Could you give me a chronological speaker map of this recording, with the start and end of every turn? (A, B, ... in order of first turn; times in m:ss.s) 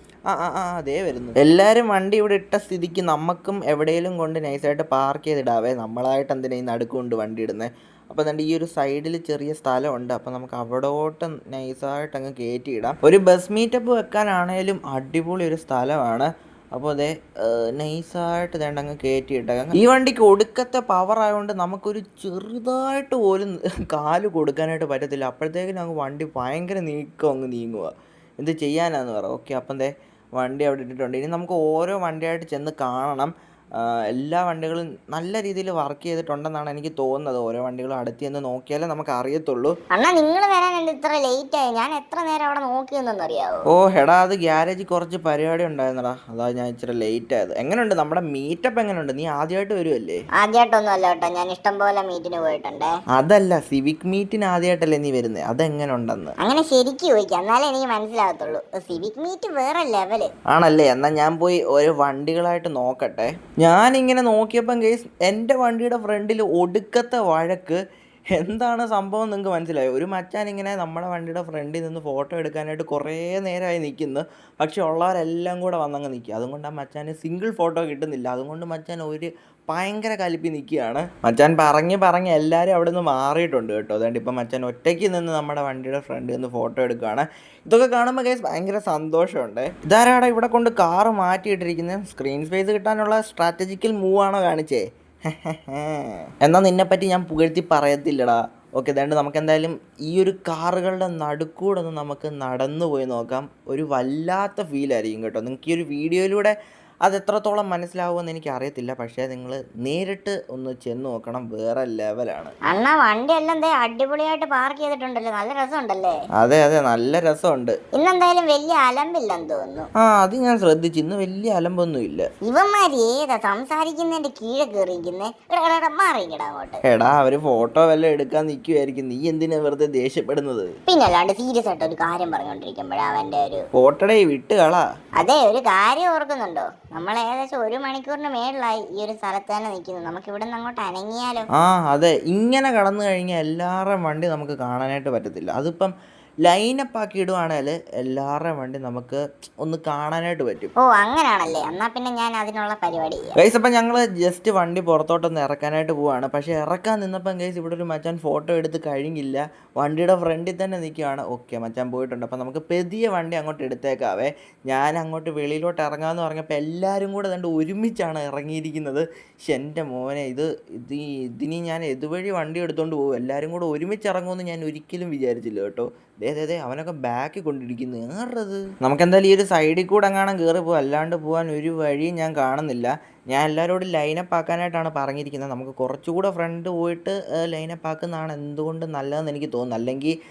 0:00.3-0:39.7 A
0:39.9-0:43.6 B
0:43.7-0:50.2 A
0:50.4-0:52.9 B
0:53.1-0:56.3 A
0:56.4-1:00.3 B
1:00.5-1:07.8 A
1:08.4-1:52.5 A
1:52.7-1:56.2 B
1:56.4-1:57.8 A
1:57.9-1:59.9 B
2:00.0-2:02.3 A
2:02.4-2:06.8 B
2:06.8-2:10.7 A
2:10.9-2:13.6 B
2:13.7-2:14.8 A
2:15.2-2:21.4 B
2:21.6-2:25.9 A
2:26.4-2:30.7 A
2:30.8-2:33.3 B
2:33.4-3:10.2 A